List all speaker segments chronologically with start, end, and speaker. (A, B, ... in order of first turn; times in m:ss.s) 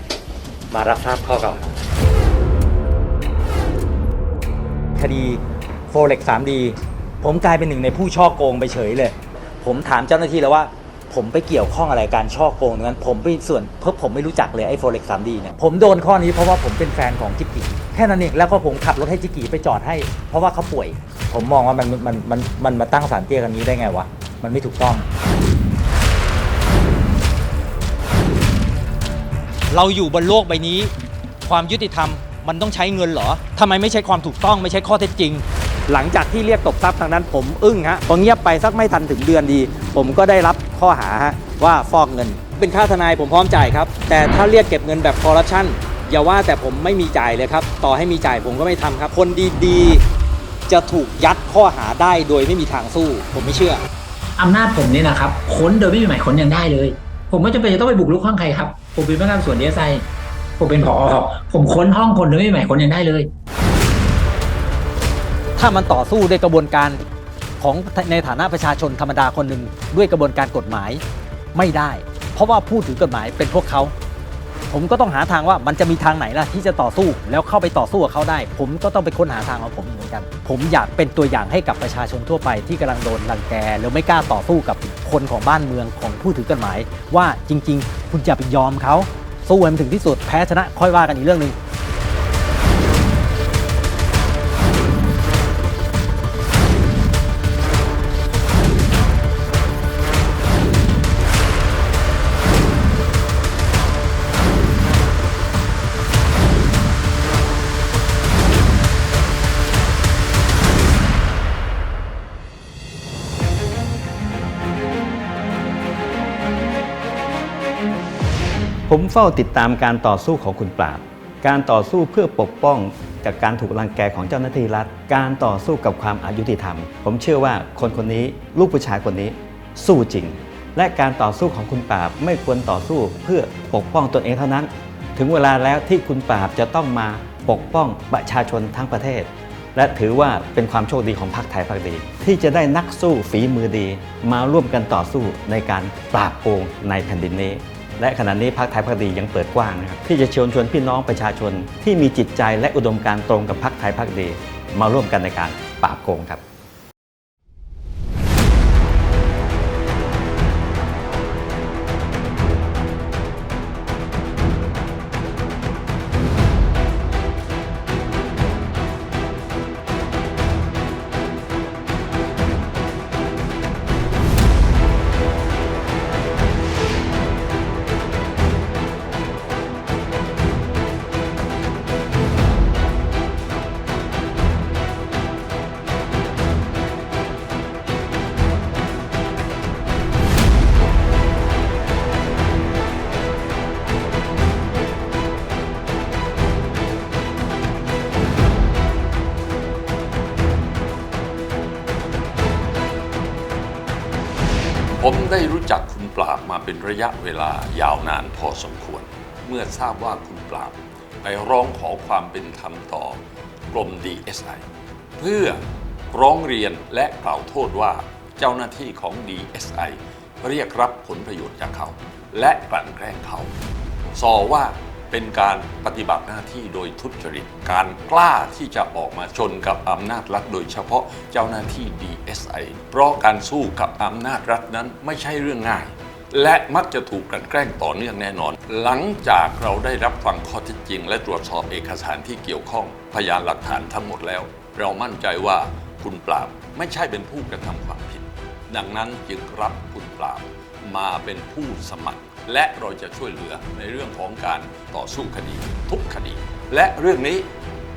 0:00.7-0:01.8 A
0:05.0-0:25.1 A
0:29.7-0:30.9 A
0:31.4-0:50.0 A
0:50.7-0:53.8 A
0:54.4-1:00.0 B
1:00.6-1:03.3 B
1:05.6-1:07.0 C
1:05.8-1:06.9 A
1:07.6-1:10.9 C
1:08.7-1:09.4 A
1:10.6-1:11.0 A
1:11.6-1:13.2 C
1:11.8-1:13.9 A
1:14.7-1:31.5 C
1:14.7-1:23.3 A
1:23.9-1:26.8 A
1:27.7-1:28.9 A
1:58.9-2:36.4 D
3:25.0-3:33.2 E
3:33.7-3:34.6 E
3:35.2-3:35.6 E
3:36.1-3:43.5 E
3:44.1-4:17.5 E